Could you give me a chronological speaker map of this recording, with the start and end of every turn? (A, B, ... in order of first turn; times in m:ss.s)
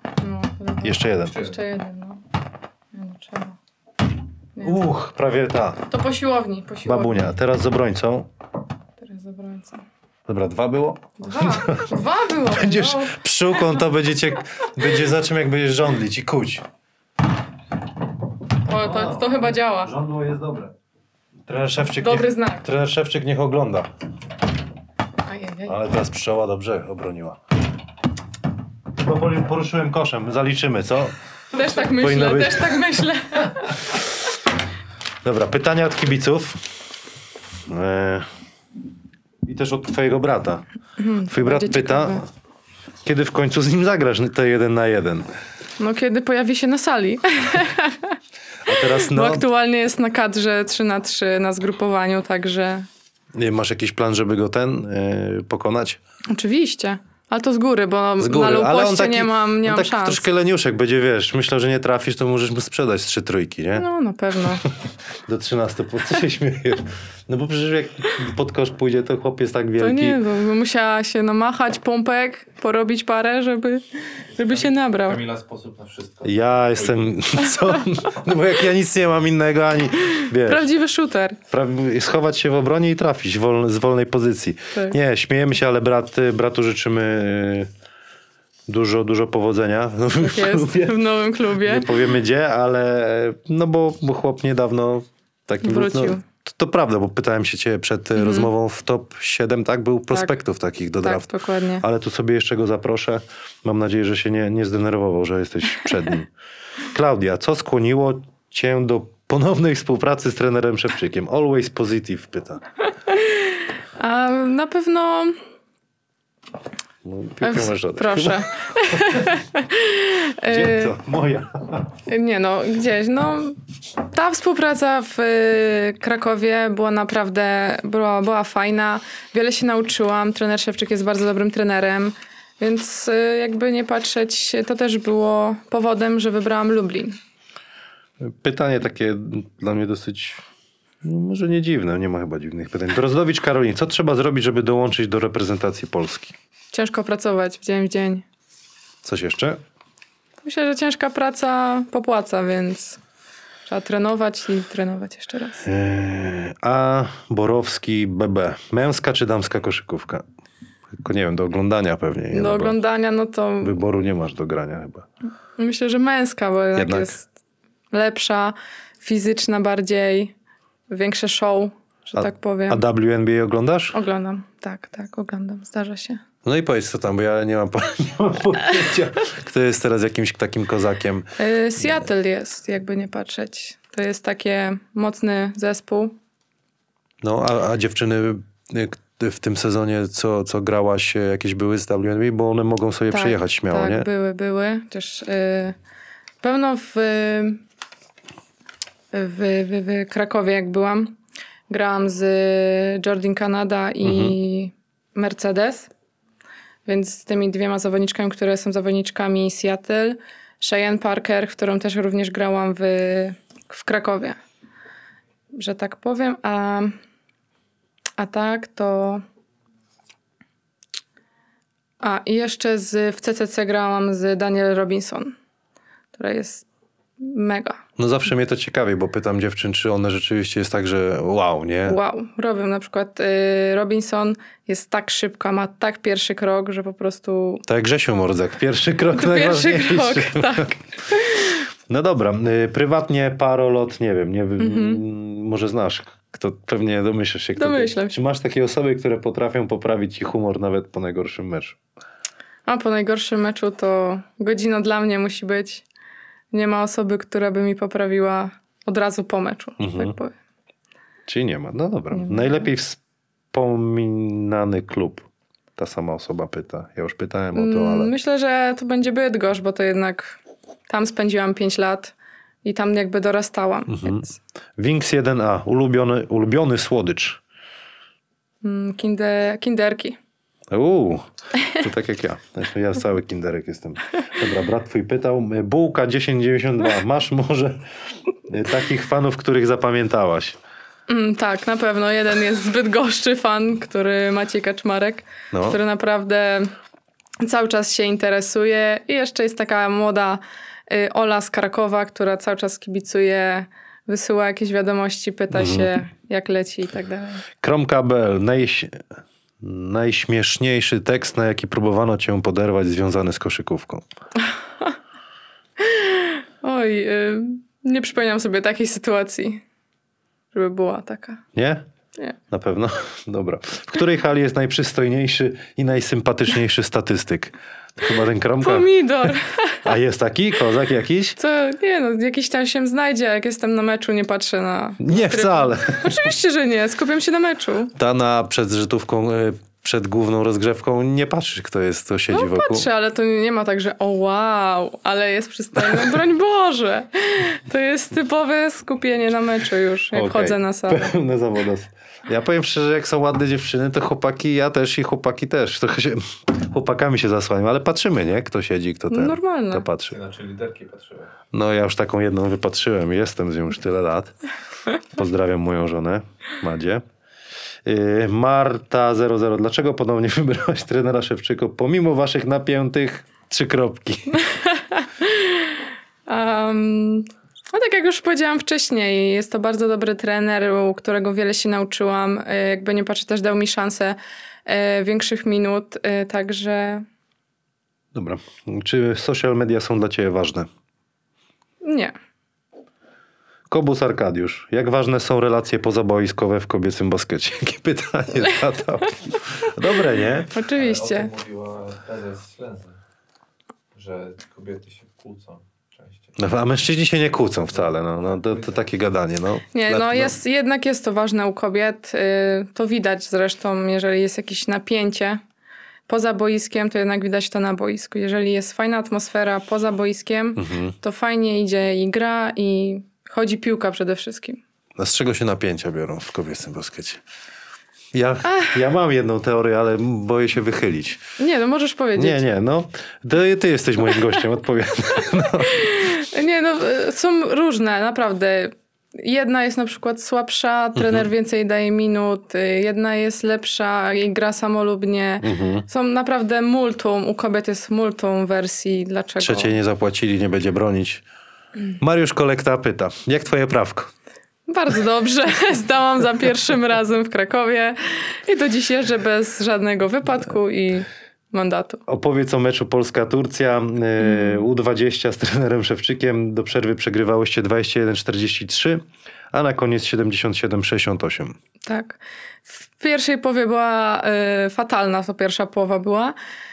0:00.2-0:02.2 A
0:00.8-0:01.4 B
0:02.9-0:03.6 A
0:04.6-0:04.8 A
0:04.6-0:05.8 B
0:05.9-0:07.3 A
0:06.8-0:08.3 B
0:09.0-0:09.8 A
0:10.3-0:11.9 B
0:11.2-0:13.8 A
0:12.5-0:16.6 B
0:18.7-0:19.9 A
0:18.8-0:20.8 B
0:21.5-0:23.9 B
0:22.0-0:22.6 A
0:25.3-0:25.8 A
0:25.7-0:27.4 B
0:28.9-0:32.8 B
0:31.5-0:33.8 A
0:35.2-0:36.7 B
0:37.7-0:38.2 B
0:39.4-0:40.6 B
0:41.0-0:42.2 A
0:41.3-0:42.2 B
0:43.0-0:45.3 B
0:45.8-0:48.2 A
0:48.7-0:49.4 B
0:48.7-0:52.9 A
0:53.3-0:56.0 B
0:56.3-1:00.2 A
0:58.2-1:03.9 B
1:03.8-1:04.7 A
1:05.3-1:10.2 B
1:09.8-1:15.2 A
1:14.3-1:17.4 C
1:16.2-1:20.7 B
1:20.2-1:21.4 A
1:21.5-1:27.7 B
1:28.7-1:31.0 B
1:30.2-1:32.0 A
1:31.6-1:41.3 B
1:35.6-1:36.2 A
1:38.2-1:38.5 A
1:41.0-1:41.8 A
1:41.8-1:46.3 B
1:46.9-1:52.6 B
1:53.1-1:55.4 A
1:57.0-1:59.3 B
1:57.4-2:01.0 A
2:00.4-2:01.9 B
2:02.1-2:17.2 A
2:18.2-2:20.4 B
2:21.0-2:26.4 B
2:26.7-2:28.2 A
2:29.0-2:29.6 B
2:30.4-2:33.0 A
2:33.7-2:35.7 A
2:35.6-2:40.2 B
2:41.0-2:42.8 B
2:42.3-2:43.8 A
2:43.6-2:45.1 B
2:45.6-2:47.3 A
2:46.8-2:47.1 B
2:47.9-2:50.3 A
2:50.9-2:52.8 A
2:52.2-2:54.0 B
2:53.9-2:56.2 A
2:56.4-3:01.3 B
3:01.4-3:06.2 A
3:07.2-3:14.1 B
3:13.1-3:15.8 A
3:16.4-3:17.6 A
3:19.1-3:21.1 A
3:21.7-3:25.9 A
3:24.0-3:24.4 B
3:26.9-3:34.4 A
3:35.5-3:37.0 A
3:38.2-3:39.2 A
3:42.0-3:45.4 A
3:46.2-3:46.7 A
3:47.2-3:47.8 A
3:48.0-3:52.0 B
3:51.9-3:57.6 A
3:57.7-4:00.7 B
3:59.1-4:01.6 A
4:01.9-4:11.8 B
4:04.6-4:05.0 A
4:07.6-4:08.2 A
4:12.7-4:15.8 A
4:16.5-4:20.3 A
4:19.8-4:20.1 B
4:21.3-4:23.0 B
4:22.1-4:22.7 A
4:23.5-4:28.1 B
4:27.6-4:34.4 A
4:33.9-4:34.2 B
4:34.8-4:37.4 B
4:38.6-4:40.2 A
4:40.7-4:47.8 B
4:48.5-4:50.6 B
4:51.1-4:56.7 A
4:55.5-4:55.8 B
4:57.4-5:07.4 A
5:05.5-5:05.9 B
5:07.6-5:09.0 B
5:09.6-5:14.0 B
5:15.8-5:19.6 A
5:20.5-5:21.4 A
5:21.6-5:21.8 B
5:22.5-5:31.4 B
5:28.6-5:29.8 A
5:31.4-5:37.9 A
5:35.0-5:36.3 B
5:38.0-5:42.9 B
5:42.3-5:51.2 A
5:45.8-5:46.2 B
5:50.1-6:00.2 B
5:59.1-5:59.9 A
6:00.1-6:01.4 C
6:01.5-6:04.3 B
6:05.1-6:07.0 B
6:07.8-6:14.4 B
6:14.6-6:27.1 A
6:28.1-6:30.7 B
6:31.8-6:32.1 A
6:33.7-6:40.5 B
6:40.5-6:41.3 A
6:40.8-6:43.0 C
6:43.9-6:46.5 C
6:46.4-6:50.4 B
6:47.5-6:48.9 C
6:49.7-6:55.4 A
6:56.1-7:04.6 A
7:00.6-7:01.0 B
7:05.0-7:07.2 B
7:08.1-7:11.2 B
7:08.4-7:08.8 A
7:11.4-7:12.5 A
7:12.2-7:15.8 B
7:15.6-7:29.8 A
7:21.0-7:21.3 B
7:25.4-7:25.9 B
7:29.4-7:31.2 B
7:32.0-7:34.1 B
7:34.7-7:42.0 A
7:42.1-7:51.6 B
7:44.2-7:44.6 A
7:51.9-7:56.4 A